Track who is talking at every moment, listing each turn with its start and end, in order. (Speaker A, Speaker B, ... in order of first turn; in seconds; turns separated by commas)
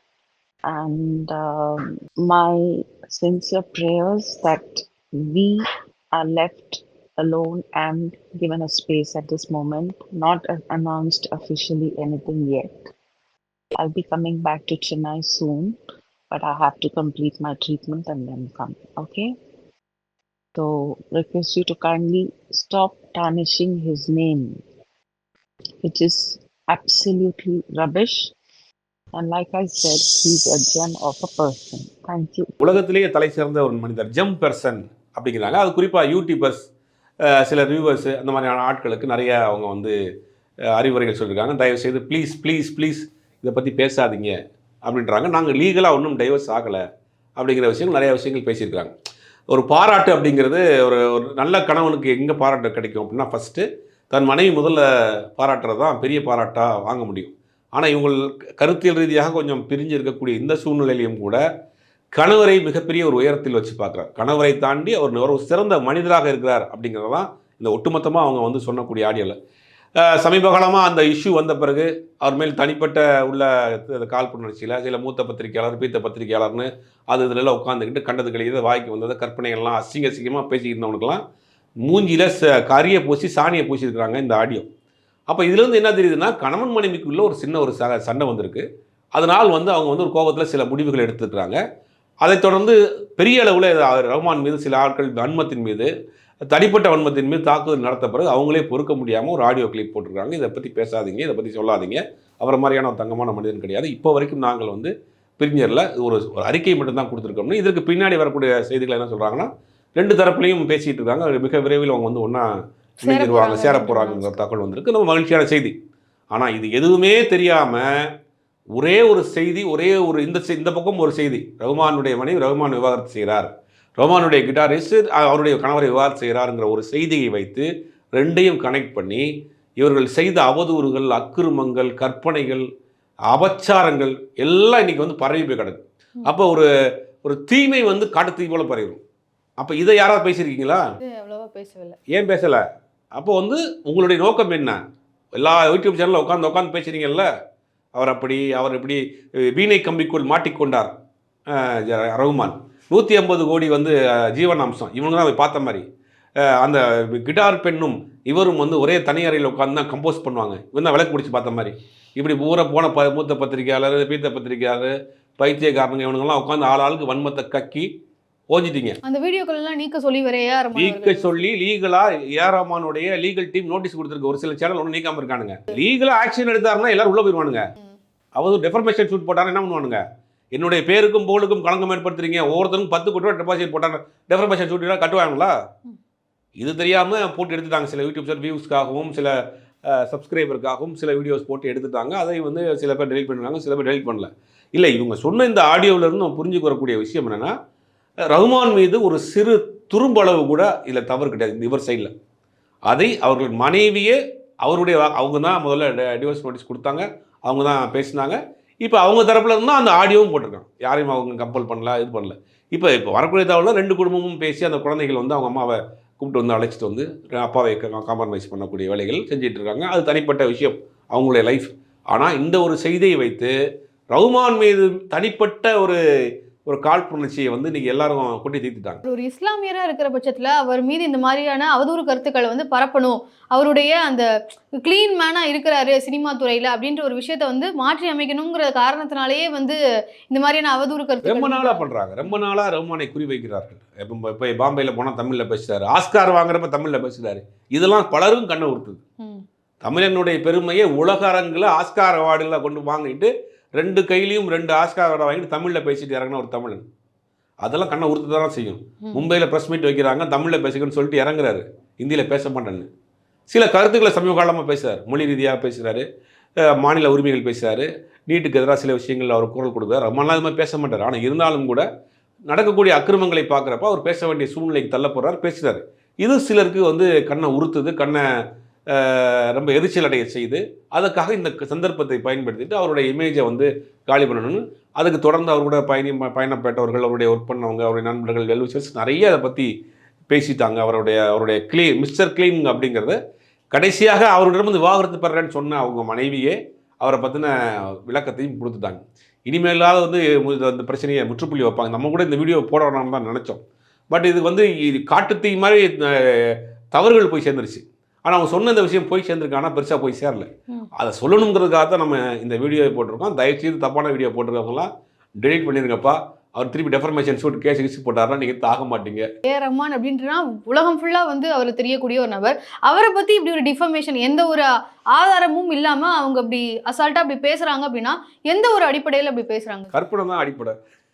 Speaker A: 0.7-12.9, Speaker A: 13.8-15.8, Speaker A: 16.3-19.3, Speaker A: 20.5-24.6, Speaker A: 25.8-28.3, Speaker A: 29.1-32.5, Speaker B: 32.6-36.7, Speaker B: 37.2-39.9, Speaker B: 40.7-46.8, Speaker B: 47.4-48.9, Speaker B: 49.5-61.4, Speaker B: 62.1-69.4, Speaker B: 70.0-81.2, Speaker B: 81.8-84.7, Speaker B: 85.3-91.6, Speaker B: 92.2-95.9, Speaker B: 96.5-112.5, Speaker B: 113.0-115.8, Speaker C: 113.0-114.4, Speaker B: 116.3-117.9, Speaker B: 118.8-129.3, Speaker B: 129.8-132.7, Speaker B: 133.3-136.7, Speaker B: 137.2-139.0, Speaker B: 139.6-140.8, Speaker C: 141.0-142.0, Speaker B: 142.1-142.6, Speaker B: 143.1-144.8, Speaker B: 145.4-147.3, Speaker B: 147.9-150.9, Speaker B: 151.5-155.9, Speaker B: 156.4-167.9, Speaker B: 168.5-169.0, Speaker C: 169.0-171.4, Speaker B: 170.8-177.6, Speaker B: 178.4-180.0, Speaker B: 180.6-185.5, Speaker B: 186.6-197.6, Speaker B: 198.3-202.1, Speaker B: 202.9-223.5, Speaker B: 224.1-226.0, Speaker B: 226.7-229.0, Speaker C: 229.1-239.8, Speaker C: 240.3-242.4, Speaker B: 241.2-249.0, Speaker B: 249.8-256.8, Speaker B: 257.6-262.9, Speaker C: 259.0-259.3, Speaker B: 263.5-266.1, Speaker B: 266.7-271.9, Speaker B: 272.5-278.2, Speaker B: 278.9-289.7, Speaker B: 290.3-293.2, Speaker B: 293.7-297.5, Speaker B: 298.1-303.6, Speaker B: 304.1-314.9, Speaker B: 315.4-319.3, Speaker C: 319.4-329.9, Speaker B: 329.9-330.8